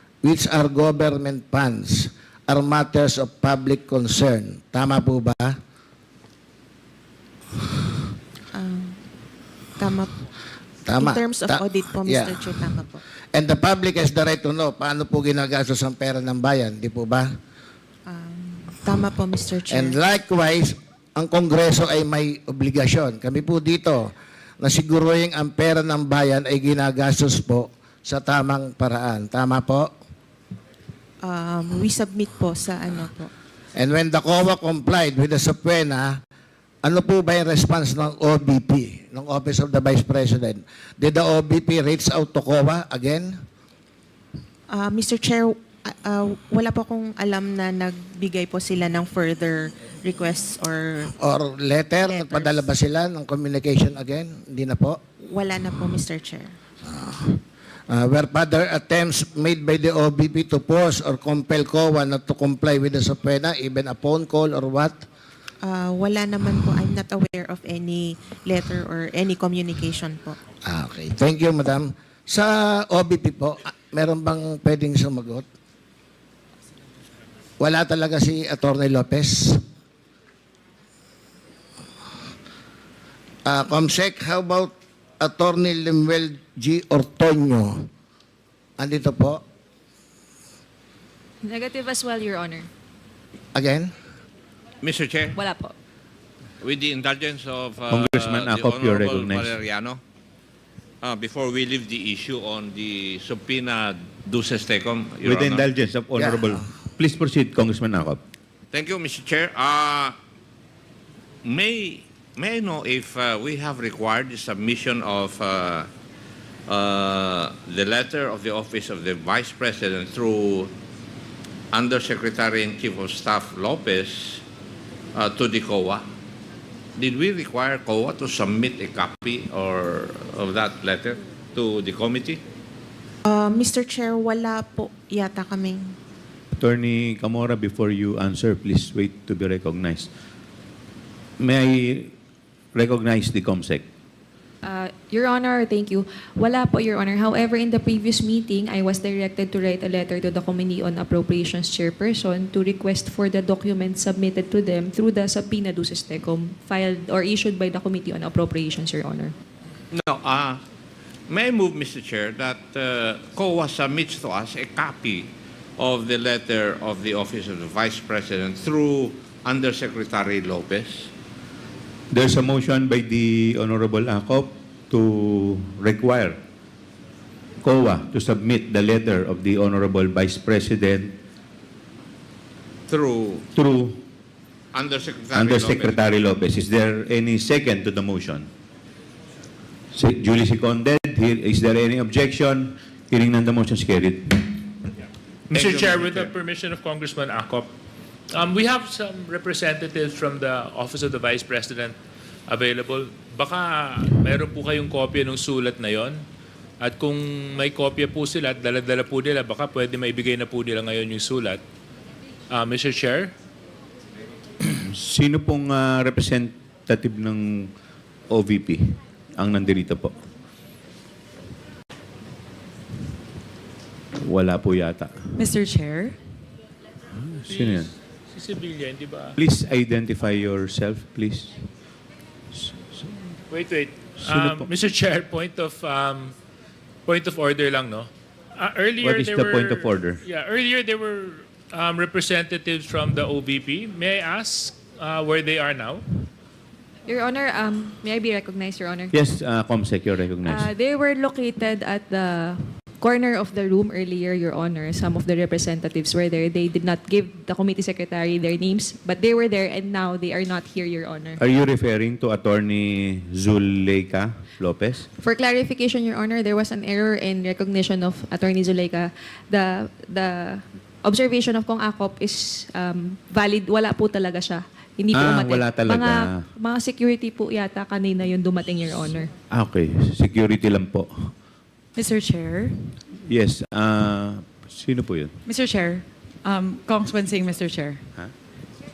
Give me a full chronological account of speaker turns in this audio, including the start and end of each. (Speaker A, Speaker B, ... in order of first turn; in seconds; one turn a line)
Speaker A: 0.2-5.6
Speaker B: 8.5-9.0
Speaker B: 9.8-10.2
Speaker A: 10.8-12.5
Speaker B: 10.9-13.0
Speaker A: 13.3-17.3
Speaker B: 18.1-19.9
Speaker A: 19.7-29.9
Speaker B: 31.2-33.3
Speaker A: 33.8-36.2
Speaker A: 36.8-43.4
Speaker B: 44.7-51.1
Speaker A: 51.2-55.0
Speaker B: 55.2-56.5
Speaker A: 56.9-65.0
Speaker B: 65.6-70.4
Speaker A: 70.6-75.4
Speaker A: 77.6-79.6
Speaker A: 83.5-87.9
Speaker A: 88.8-89.4
Speaker C: 91.4-92.7
Speaker A: 93.5-93.9
Speaker D: 94.8-95.4
Speaker C: 95.3-95.7
Speaker D: 96.6-100.0
Speaker E: 97.9-99.6
Speaker D: 101.0-105.6
Speaker E: 105.2-108.2
Speaker A: 106.2-106.5
Speaker D: 108.7-110.2
Speaker D: 111.4-115.9
Speaker D: 116.7-120.7
Speaker D: 121.7-124.4
Speaker D: 125.1-126.0
Speaker D: 127.0-132.4
Speaker B: 133.2-135.9
Speaker E: 136.5-140.1
Speaker E: 141.4-142.1
Speaker E: 142.7-143.8
Speaker C: 144.6-159.3
Speaker D: 159.9-160.6
Speaker D: 161.3-171.1
Speaker E: 172.1-176.4
Speaker E: 177.6-181.2
Speaker D: 182.9-183.5
Speaker E: 183.5-184.0
Speaker D: 184.7-186.0
Speaker E: 185.3-188.5
Speaker E: 189.9-194.8
Speaker F: 195.5-197.7
Speaker D: 195.5-196.3
Speaker F: 198.3-201.9
Speaker F: 202.5-206.2
Speaker F: 206.8-211.6
Speaker F: 212.5-213.3
Speaker E: 214.8-217.7
Speaker E: 218.3-220.2
Speaker E: 224.2-225.3
Speaker G: 225.3-226.2
Speaker E: 227.1-227.9
Speaker F: 227.5-229.3
Speaker E: 229.4-231.7
Speaker E: 232.5-233.1
Speaker F: 233.5-236.3
Speaker E: 234.2-234.7
Speaker F: 237.1-246.2
Speaker E: 239.0-240.2
Speaker C: 247.1-249.1
Speaker E: 249.1-250.7
Speaker C: 250.4-261.4
Speaker E: 261.4-265.1
Speaker C: 265.1-279.3
Speaker E: 275.1-276.4
Speaker E: 279.5-281.3
Speaker G: 281.9-282.9
Speaker E: 283.2-285.3
Speaker G: 285.4-288.0